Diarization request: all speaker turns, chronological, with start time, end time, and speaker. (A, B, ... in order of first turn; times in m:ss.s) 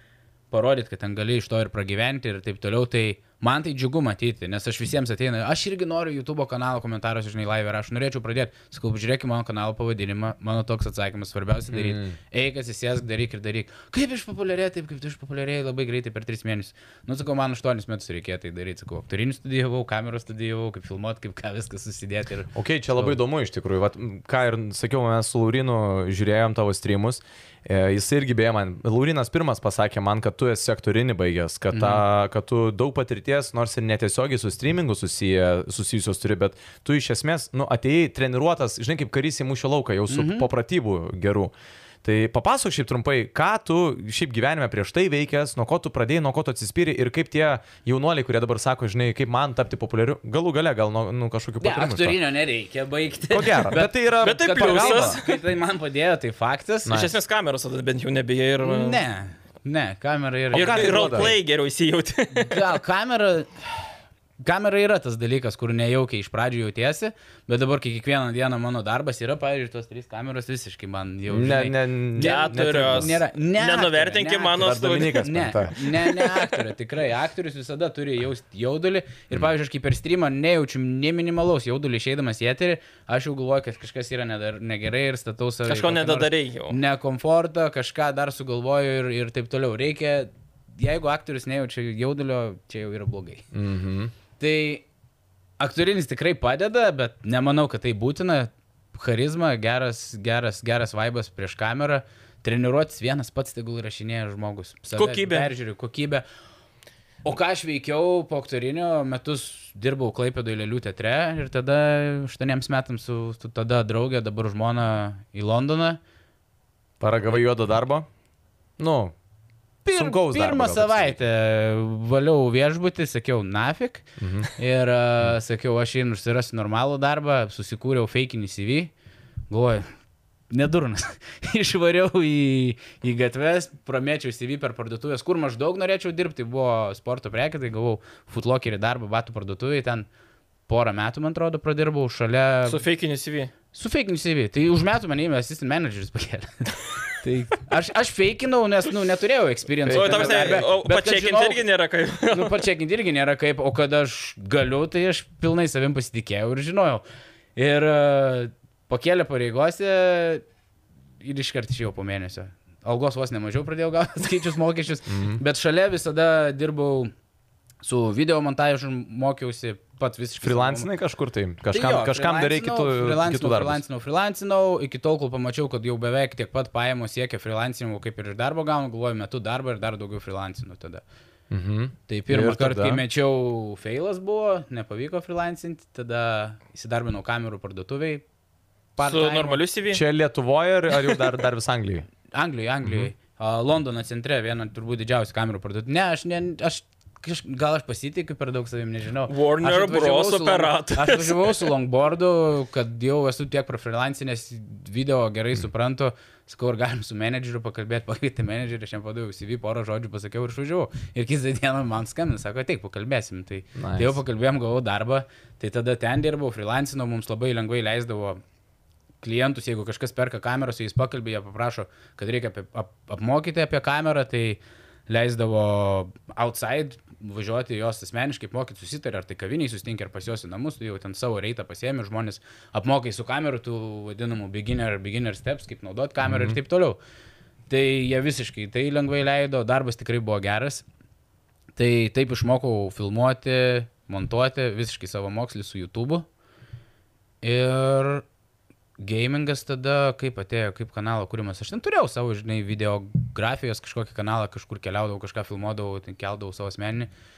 0:00.5-0:23.2 A
0:11.7-0:12.2 B
0:22.5-0:41.5 B
0:31.7-0:32.0 A
0:40.1-0:40.5 A
0:42.0-0:52.2 B
0:51.6-0:57.0 A
0:53.3-0:55.2 B
0:54.2-0:55.3 C
0:56.8-0:57.1 B
0:56.9-0:59.0 C
0:58.6-1:01.3 A
1:00.5-1:01.3 B
1:00.5-1:02.7 C
1:02.4-1:03.5 A
1:04.4-1:33.5 A
1:11.3-1:13.2 B
1:12.2-1:15.3 C
1:14.6-1:15.9 B
1:25.7-1:26.8 C
1:33.5-1:34.1 B
1:34.4-1:34.8 A
1:35.6-1:46.2 A
1:45.0-1:45.5 C
1:47.2-1:56.0 A
1:57.0-1:58.1 B
1:58.8-1:59.1 B
1:59.8-2:08.9 A
1:59.9-2:01.2 B
2:04.2-2:04.5 B
2:09.5-2:09.9 A
2:10.5-2:20.1 A
2:20.7-2:22.8 A
2:22.7-2:23.5 C
2:23.7-2:31.6 A
2:29.8-2:30.6 B
2:29.9-2:32.6 C
2:32.3-2:37.0 A
2:37.6-2:40.4 A
2:41.2-2:47.1 A
2:45.1-2:45.4 B
2:47.8-2:50.9 A
2:50.4-2:53.8 B
2:51.7-3:01.0 A
3:01.5-3:03.0 B
3:02.1-3:08.2 A
3:09.0-3:09.6 A
3:09.0-3:10.0 C
3:09.9-3:12.1 B
3:12.3-3:38.4 A
3:12.8-3:13.1 B
3:19.3-3:21.7 C
3:33.8-3:34.2 B
3:39.2-3:57.0 A
3:56.2-3:56.6 B
3:57.7-4:00.8 A
4:01.8-4:06.2 A
4:07.4-4:08.2 A
4:09.0-4:17.1 A